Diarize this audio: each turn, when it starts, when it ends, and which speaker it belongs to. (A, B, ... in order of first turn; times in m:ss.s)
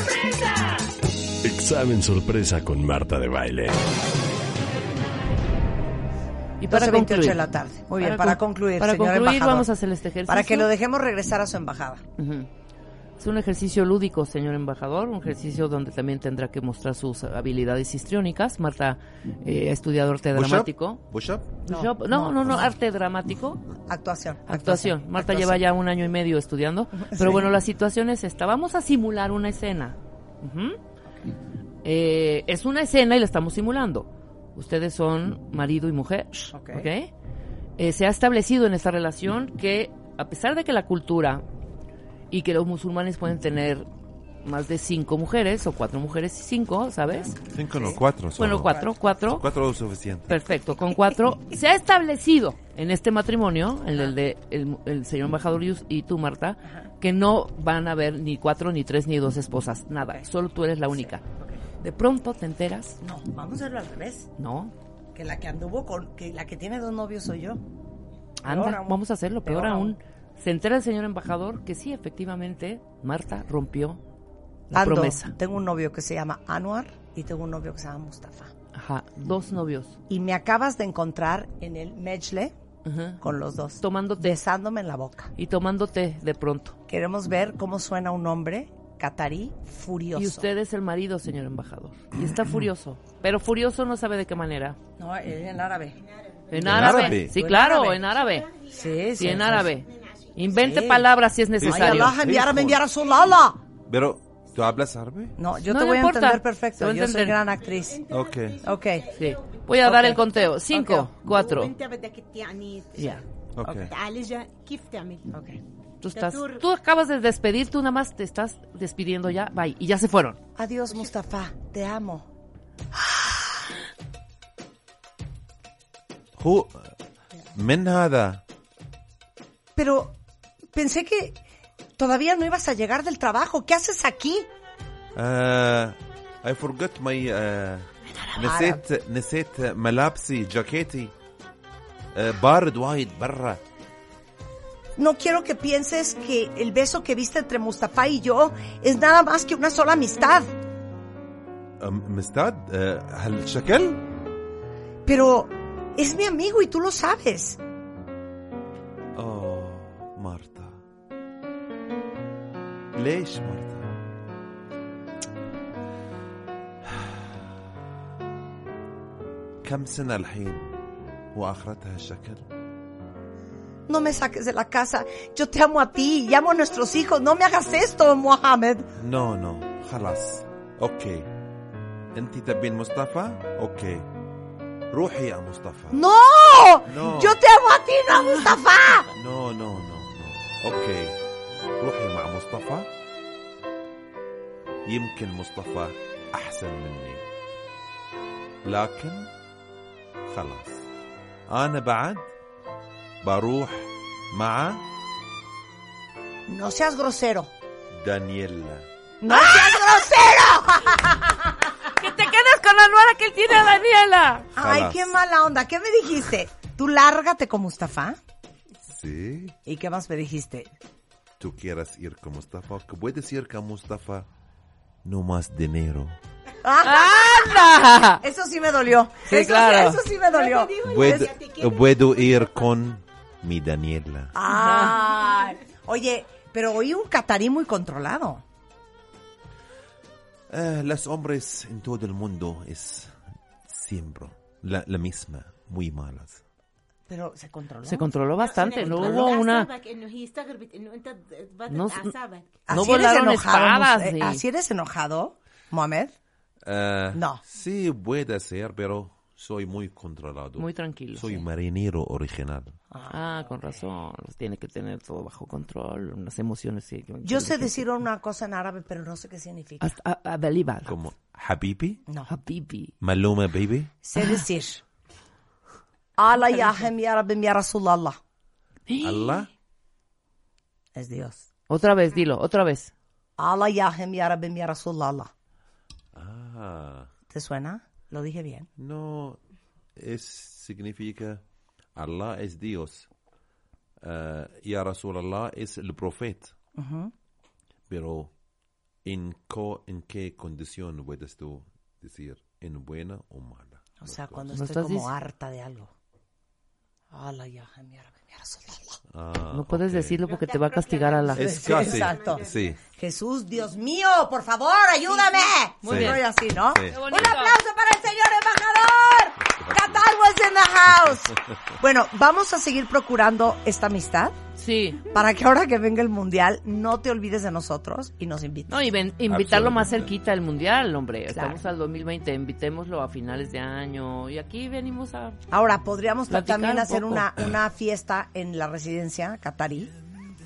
0:01.4-0:03.9 A
0:06.6-0:10.7 B
0:06.7-0:09.7 C
0:10.3-0:12.0 C
0:12.2-0:12.5 B
0:13.2-0:21.0 B
0:20.3-0:21.6 D
0:21.6-0:23.7 B
0:21.7-0:22.7 C
0:23.9-0:25.6 C
0:24.5-0:30.8 B
0:27.0-0:27.5 C
0:31.8-0:37.1 B
0:36.5-0:36.9 C
0:37.8-0:41.4 B
0:42.3-0:43.9 B
0:44.4-0:47.4 B
0:47.1-0:48.0 C
0:47.5-0:50.4 D
0:48.4-0:49.4 B
0:50.3-1:01.2 B
0:56.6-0:56.9 C
1:00.9-1:01.6 C
1:01.8-1:03.0 B
1:03.0-1:04.3 C
1:04.4-1:04.7 B
1:05.2-1:07.6 C
1:08.4-1:14.0 B
1:08.5-1:10.0 C
1:14.7-1:18.5 C
1:14.7-1:15.4 B
1:18.8-1:20.0 B
1:20.1-1:22.5 C
1:22.8-1:23.2 B
1:23.2-1:25.3 C
1:23.8-1:24.4 B
1:25.4-1:26.8 B
1:26.9-1:30.5 C
1:30.2-1:34.8 B
1:35.0-1:36.0 C
1:36.0-1:37.1 E
1:36.5-1:38.5 B
1:36.6-1:37.4 D
1:36.8-1:38.0 C
1:38.0-1:40.8 E
1:38.7-1:39.7 C
1:39.2-1:42.2 B
1:40.6-1:41.1 C
1:41.6-1:42.8 D
1:41.6-1:43.6 C
1:43.9-1:45.4 D
1:45.4-1:48.0 C
1:45.7-1:47.4 B
1:47.6-1:50.5 E
1:48.1-1:48.6 D
1:48.6-1:49.1 C
1:49.1-1:51.8 B
1:49.8-1:51.1 C
1:51.2-1:53.2 E
1:53.0-1:53.2 B
1:53.6-1:53.9 D
1:53.6-1:53.9 C
1:53.8-1:55.3 E
1:55.3-1:55.6 C
1:56.0-2:00.4 B
1:56.1-1:56.7 E
2:00.6-2:02.3 C
2:03.0-2:03.6 C
2:06.4-2:07.0 D
2:07.5-2:08.4 D
2:09.8-2:10.2 C
2:10.7-2:11.4 C
2:12.0-2:14.5 C
2:15.1-2:21.1 D
2:18.4-2:18.8 C
2:22.1-2:23.6 D
2:25.0-2:30.5 C
2:31.8-2:34.0 D
2:35.0-2:37.6 C
2:39.2-2:40.8 D
2:42.9-2:44.0 D
2:46.8-2:47.4 D
2:49.6-2:52.5 D
2:53.9-2:58.9 C
2:59.0-3:01.3 D
3:02.1-3:04.1 D
3:04.9-3:06.0 D
3:05.9-3:09.1 C
3:06.9-3:07.4 D
3:09.1-3:11.2 D
3:11.8-3:12.9 D
3:14.8-3:17.3 D
3:18.6-3:19.3 D
3:20.3-3:20.9 D
3:21.5-3:22.3 D
3:23.2-3:24.8 D
3:26.5-3:27.5 C
3:27.9-3:28.9 D
3:29.2-3:31.6 C
3:29.3-3:30.0 B
3:32.0-3:34.5 B
3:34.6-3:38.2 C
3:34.6-3:35.1 D
3:38.9-3:39.6 D
3:39.7-3:40.7 C
3:41.4-3:44.3 D
3:45.0-3:46.2 D
3:46.6-3:50.8 C
3:46.8-3:48.2 B
3:49.3-3:50.0 B
3:50.2-3:52.7 E
3:50.8-3:54.3 D
3:54.3-3:58.4 C
3:54.5-3:55.0 B
4:00.5-4:06.4 D
4:07.1-4:08.1 C
4:07.9-4:09.7 B
4:08.4-4:12.7 E
4:08.8-4:09.0 C
4:11.7-4:12.2 B
4:12.7-4:14.4 B
4:12.7-4:16.1 C
4:16.6-4:22.8 D
4:17.1-4:17.4 C
4:20.6-4:21.4 B
4:22.9-4:23.5 C
4:23.1-4:27.8 B
4:27.2-4:30.0 C
4:29.8-4:31.0 B
4:30.8-4:32.0 D
4:32.3-4:32.9 B
4:33.0-4:33.9 D
4:34.0-4:34.8 C
4:34.2-4:34.4 B
4:36.2-4:38.2 C
4:38.9-4:39.5 B
4:39.0-4:39.5 D
4:41.0-4:41.4 C
4:41.7-4:42.9 B
4:43.4-4:45.3 C
4:46.2-4:47.1 D
4:47.3-4:48.7 C
4:48.8-4:49.4 D
4:50.0-4:51.4 D
4:52.0-4:53.1 D
4:54.0-4:56.6 D
4:56.8-4:57.1 C
4:57.9-4:58.3 D
4:59.0-5:04.4 D
5:04.0-5:05.9 C
5:04.5-5:05.1 B
5:07.1-5:09.0 C
5:09.1-5:10.2 D
5:09.5-5:11.5 B
5:10.2-5:12.8 E
5:11.4-5:12.8 D
5:11.4-5:24.4 C
5:15.1-5:15.5 E
5:15.8-5:16.2 B
5:15.9-5:17.3 D
5:16.9-5:17.6 B
5:19.6-5:20.0 D
5:24.6-5:25.0 B
5:25.0-5:28.8 C
5:28.7-5:35.4 B
5:29.3-5:30.1 D
5:31.3-5:31.6 C
5:35.5-5:39.9 C
5:36.3-5:37.5 B